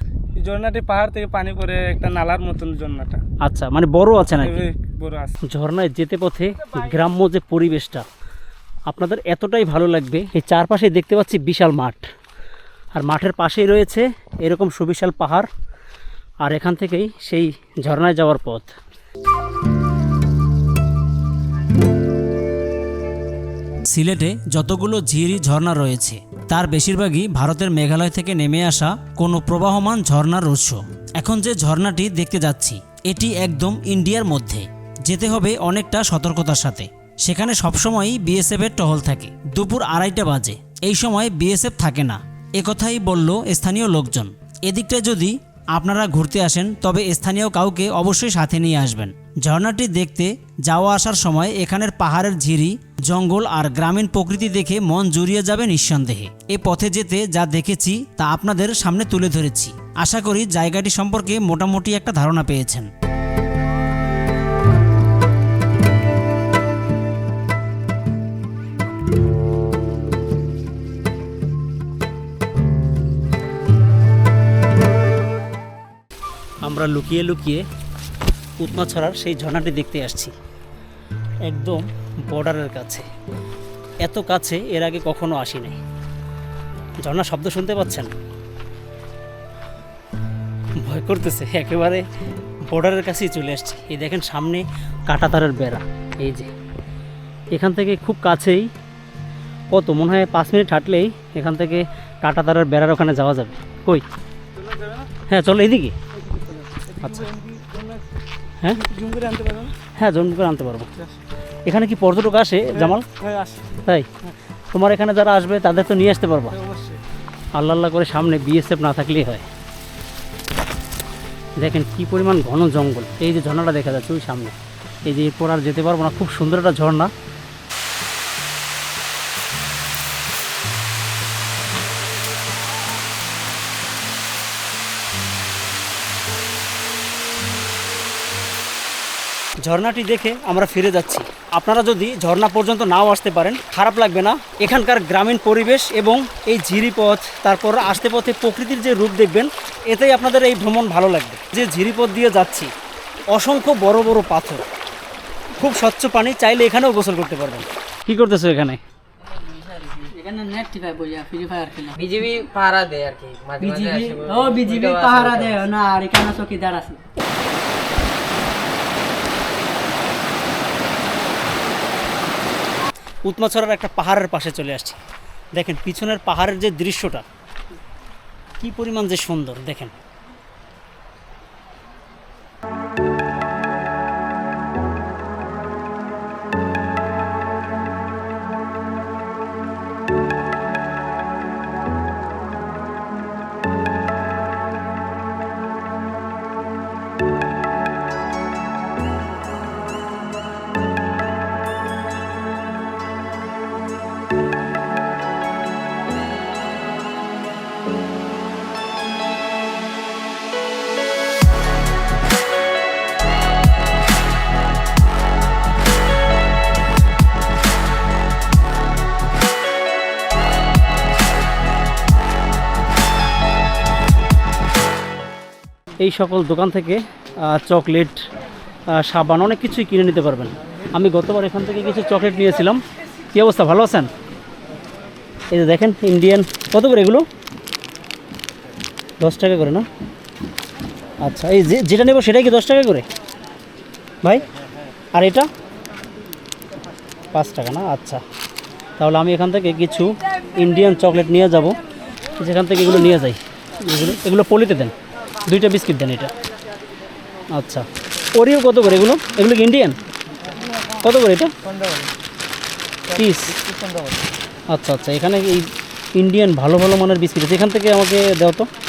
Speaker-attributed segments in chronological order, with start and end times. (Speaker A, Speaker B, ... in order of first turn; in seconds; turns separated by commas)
Speaker A: 0.3-3.2, Speaker B: 3.4-4.7, Speaker A: 4.4-5.4, Speaker B: 5.4-8.1, Speaker B: 8.9-12.1, Speaker B: 12.9-15.5, Speaker B: 16.4-18.7, Speaker B: 23.9-62.9, Speaker B: 76.6-77.7, Speaker B: 78.6-80.3, Speaker B: 81.5-83.1, Speaker B: 84.0-85.8, Speaker B: 87.0-88.1, Speaker B: 90.8-92.1, Speaker B: 92.7-96.5, Speaker B: 97.5-98.7, Speaker B: 99.7-104.0, Speaker A: 104.7-105.0, Speaker B: 105.3-106.0, Speaker A: 106.4-108.0, Speaker A: 108.8-109.8, Speaker B: 110.0-110.9, Speaker B: 111.7-113.1, Speaker A: 112.8-113.8, Speaker B: 113.8-114.1, Speaker B: 114.7-116.6, Speaker A: 116.7-117.0, Speaker B: 117.5-119.5, Speaker B: 121.6-127.1, Speaker B: 139.6-152.7, Speaker B: 153.3-154.7, Speaker B: 155.6-158.8, Speaker C: 159.5-160.1, Speaker D: 160.1-162.0, Speaker C: 162.0-165.7, Speaker D: 163.6-167.0, Speaker B: 173.3-175.0, Speaker B: 175.6-177.2, Speaker B: 178.6-180.0, Speaker B: 226.0-228.2, Speaker B: 228.9-232.8, Speaker B: 233.3-234.1, Speaker B: 235.5-237.3, Speaker B: 239.2-239.9, Speaker B: 241.2-243.1, Speaker B: 245.1-245.5, Speaker B: 247.3-248.2, Speaker B: 249.0-251.8, Speaker B: 252.4-254.9, Speaker B: 255.5-256.3, Speaker B: 257.5-260.0, Speaker B: 260.9-261.5, Speaker B: 263.1-263.6, Speaker B: 264.7-268.7